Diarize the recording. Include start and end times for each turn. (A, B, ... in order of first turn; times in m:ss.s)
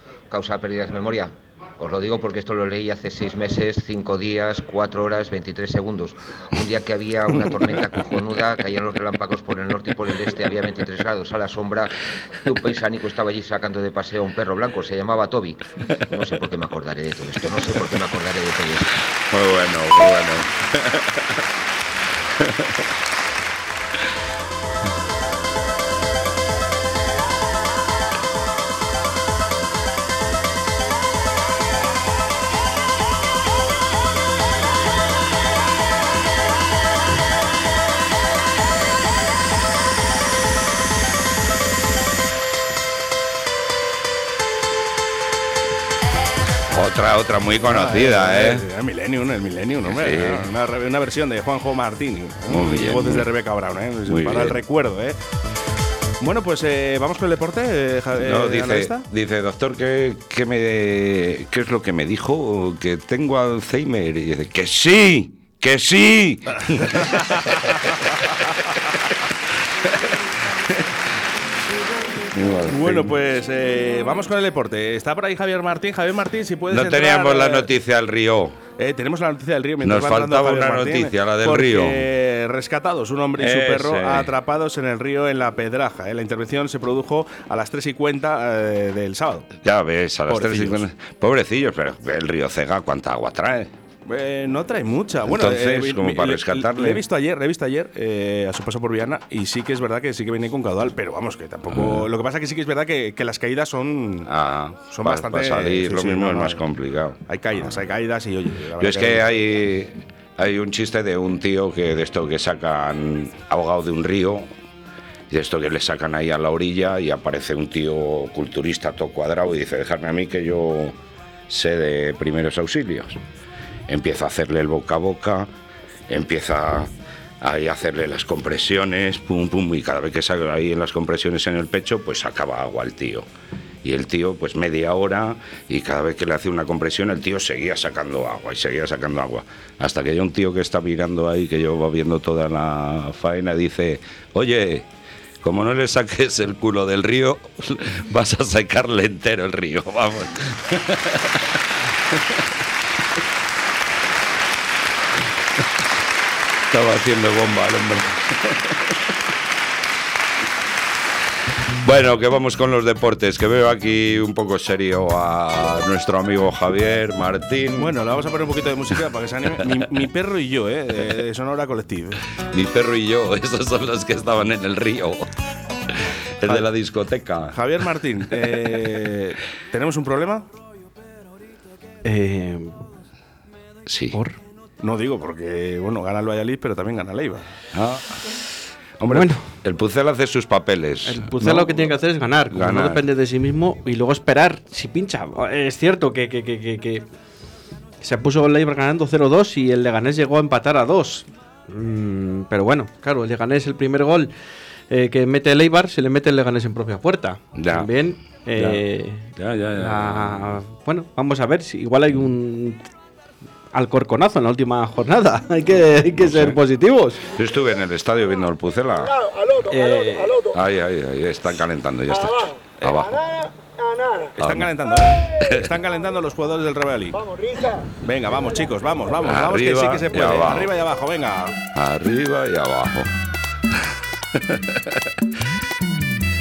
0:00.3-0:18.9 A
0:19.3-0:21.4 B
0:22.2-0:22.9 B
0:46.7-0:48.7 B
0:47.6-0:55.2 C
0:49.8-0:50.5 B
0:52.5-0:53.3 B
0:54.0-0:54.6 B
0:56.2-0:59.1 C
0:58.2-1:07.8 B
1:09.8-1:10.2 B
1:12.3-1:13.2 B
1:12.7-1:17.7 C
1:16.7-1:18.6 B
1:18.8-1:29.5 C
1:19.8-1:22.1 B
1:23.4-1:24.3 B
1:29.6-1:33.7 B
1:30.3-1:30.8 C
1:34.1-1:44.3 C
1:35.2-1:37.0 B
1:41.7-1:42.1 B
1:44.2-1:47.2 B
1:44.9-1:46.6 C
1:47.3-1:49.4 C
1:48.8-1:54.5 B
1:55.3-2:01.0 B
2:01.5-2:03.2 B
2:03.9-2:05.5 B
2:06.1-2:13.3 B
2:13.8-2:24.9 B
2:25.4-2:32.5 B
2:36.7-2:39.0 B
2:41.8-2:47.9 B
2:47.8-2:52.2 C
2:52.5-2:55.3 B
2:56.4-2:57.6 B
2:57.5-3:00.5 C
3:02.0-3:02.8 D
3:03.9-3:04.2 B
3:04.8-3:07.5 C
3:07.7-3:08.2 B
3:09.0-3:11.9 B
3:09.1-3:09.4 D
3:11.0-3:17.0 D
3:12.5-3:13.0 B
3:18.0-3:24.3 D
3:24.9-3:32.8 D
3:27.6-3:27.9 B
3:28.6-3:28.8 B
3:29.4-3:30.6 B
3:33.7-3:37.2 D
3:36.2-3:36.6 B
3:37.4-3:39.2 B
3:39.7-3:40.4 D
3:40.5-3:43.4 B
3:44.4-3:44.7 B
3:44.4-3:47.3 C
3:45.3-3:45.7 B
3:48.0-3:51.6 C
3:49.2-3:50.7 B
3:51.7-3:53.1 B
3:53.7-3:55.1 B